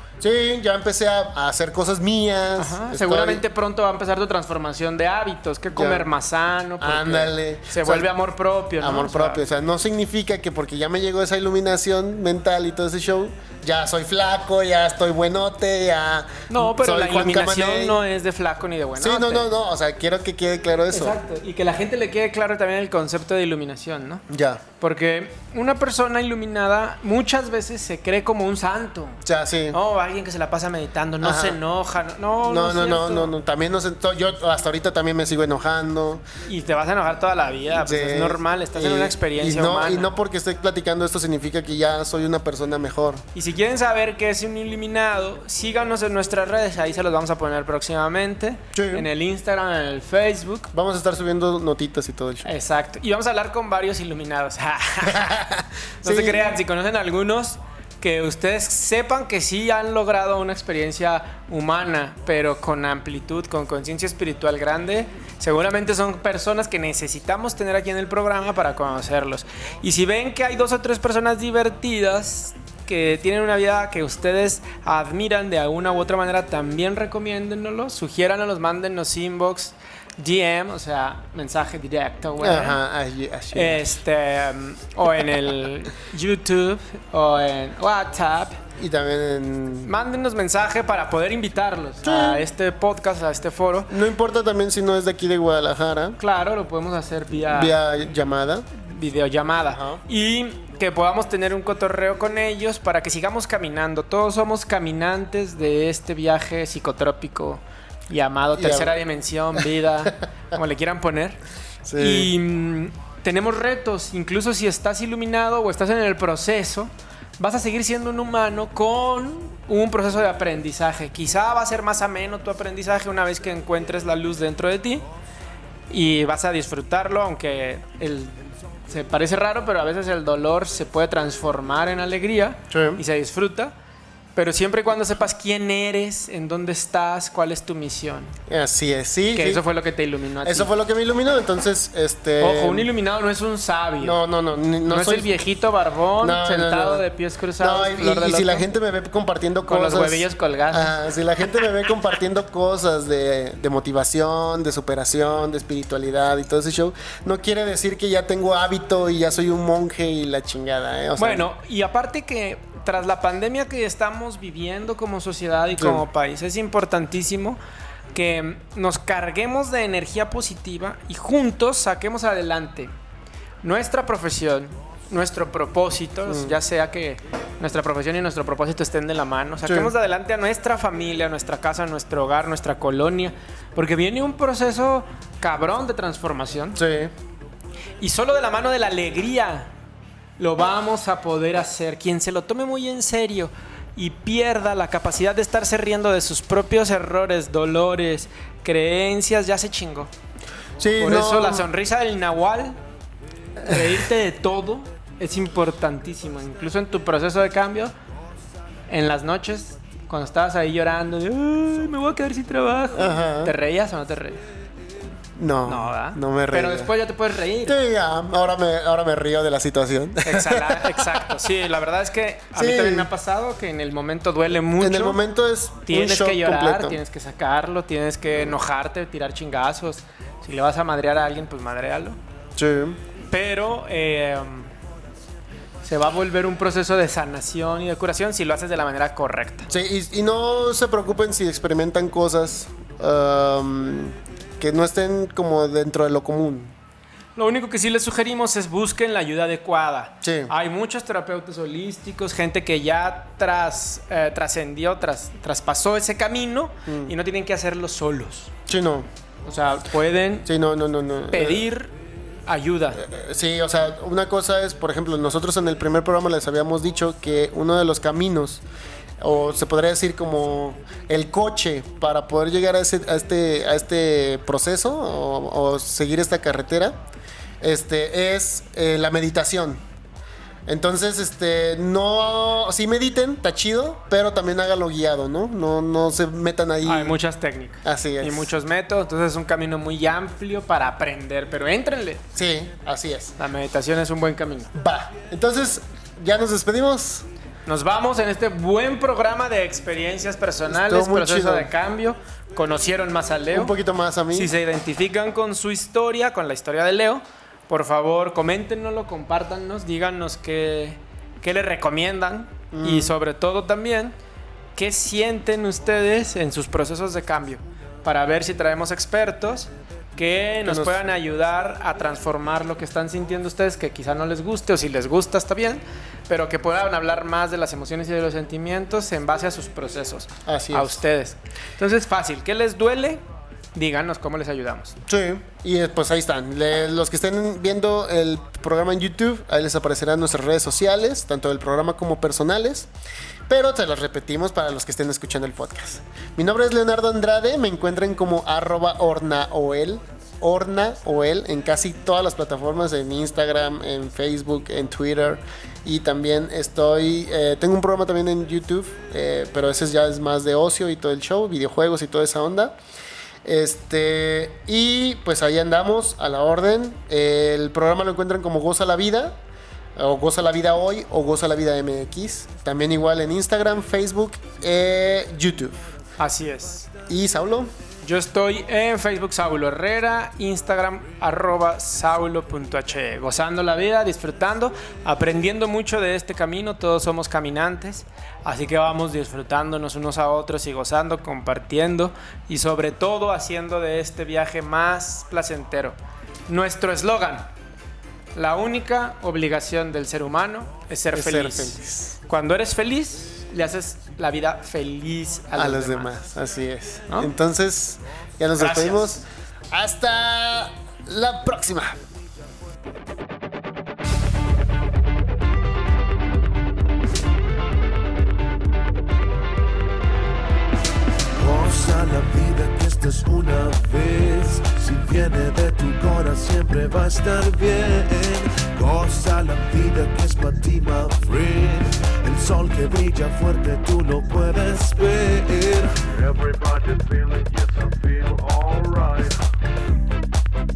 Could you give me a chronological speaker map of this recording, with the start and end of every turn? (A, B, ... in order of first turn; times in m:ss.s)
0:00.2-0:03.4 A
0:02.6-0:09.4 B
0:05.7-0:06.1 A
0:06.8-0:08.1 A
0:08.8-0:18.0 A
0:16.5-0:19.5 B
0:19.0-0:21.2 A
0:20.9-0:24.2 B
0:24.3-0:24.6 A
0:24.8-0:29.2 B
0:29.2-0:29.8 A
0:29.7-0:33.3 B
0:31.2-0:31.6 A
0:32.4-0:36.2 A
0:36.4-0:40.1 B
0:37.7-0:43.2 A
0:43.3-0:50.7 B
0:48.7-0:49.1 A
0:50.7-0:52.5 A
0:52.4-0:55.5 B
0:55.1-0:56.5 A
0:56.0-1:22.8 B
1:22.4-1:23.8 A
1:23.5-1:28.6 B
1:28.8-1:29.9 A
1:29.8-1:33.9 B
1:32.0-1:32.5 A
1:33.9-1:36.2 A
1:36.2-1:37.8 B
1:37.4-1:38.7 A
1:38.7-1:51.4 B
1:39.7-1:40.0 A
1:48.5-1:49.0 A
1:51.8-1:52.3 A
1:52.0-2:05.0 B
2:05.9-2:13.7 B
2:12.7-2:13.0 A
2:14.3-2:18.4 B
2:18.5-2:19.6 A
2:19.3-2:20.7 B
2:20.4-2:22.9 A
2:22.4-2:24.2 B
2:24.0-2:25.3 A
2:24.9-2:28.7 B
2:26.2-2:27.0 A
2:27.6-2:41.5 A
2:29.7-2:30.9 B
2:41.2-2:47.6 B
2:45.8-2:46.0 A
2:48.1-2:52.9 B
2:53.6-3:06.8 B
2:56.3-2:56.6 A
2:59.6-2:59.9 A
3:06.8-3:07.1 A
3:08.0-3:09.7 B
3:10.4-3:20.1 B
3:20.8-3:21.7 A
3:21.0-3:22.8 B
3:23.6-3:27.9 B
3:23.6-3:23.9 A
3:28.9-3:34.4 B
3:32.9-3:33.5 A
3:35.4-3:36.9 A
3:35.6-3:37.8 B
3:37.6-3:41.4 A
3:40.2-3:45.2 B
3:42.5-3:43.1 A
3:44.8-3:47.0 A
3:45.8-3:52.2 B
3:52.6-3:53.0 A
3:53.3-3:54.7 B
3:55.8-3:59.7 B
3:59.7-4:06.7 A
4:07.4-4:18.5 B
4:10.2-4:10.5 A
4:16.9-4:17.1 A
4:18.7-4:19.1 A
4:19.4-4:20.5 B
4:20.5-4:21.6 A
4:21.3-4:21.9 B
4:22.5-4:23.0 B
4:23.0-4:28.6 A
4:29.2-4:37.0 A
4:37.6-4:39.8 A
4:40.7-4:47.2 A
4:46.8-4:52.2 B
4:47.8-4:48.5 A
4:52.3-4:53.4 A
4:53.4-4:54.7 B
4:54.7-4:57.3 A
4:57.6-5:03.7 B
5:00.7-5:01.7 A
5:03.5-5:04.5 A
5:04.3-5:14.1 B
5:12.7-5:13.1 A
5:14.8-5:33.2 B
5:20.6-5:21.0 A
5:30.4-5:31.0 A
5:33.7-5:35.0 B
5:35.1-5:42.9 A
5:43.5-6:02.8 A
6:03.4-6:09.4 A
6:10.0-6:15.9 A
6:16.2-6:16.9 B
6:17.1-6:17.7 A
6:18.0-6:36.0 B
6:36.5-6:37.5 B
6:38.4-6:46.1 B
6:41.1-6:42.1 A
6:45.5-6:52.0 A
6:48.6-6:49.1 B
7:01.4-7:19.4 C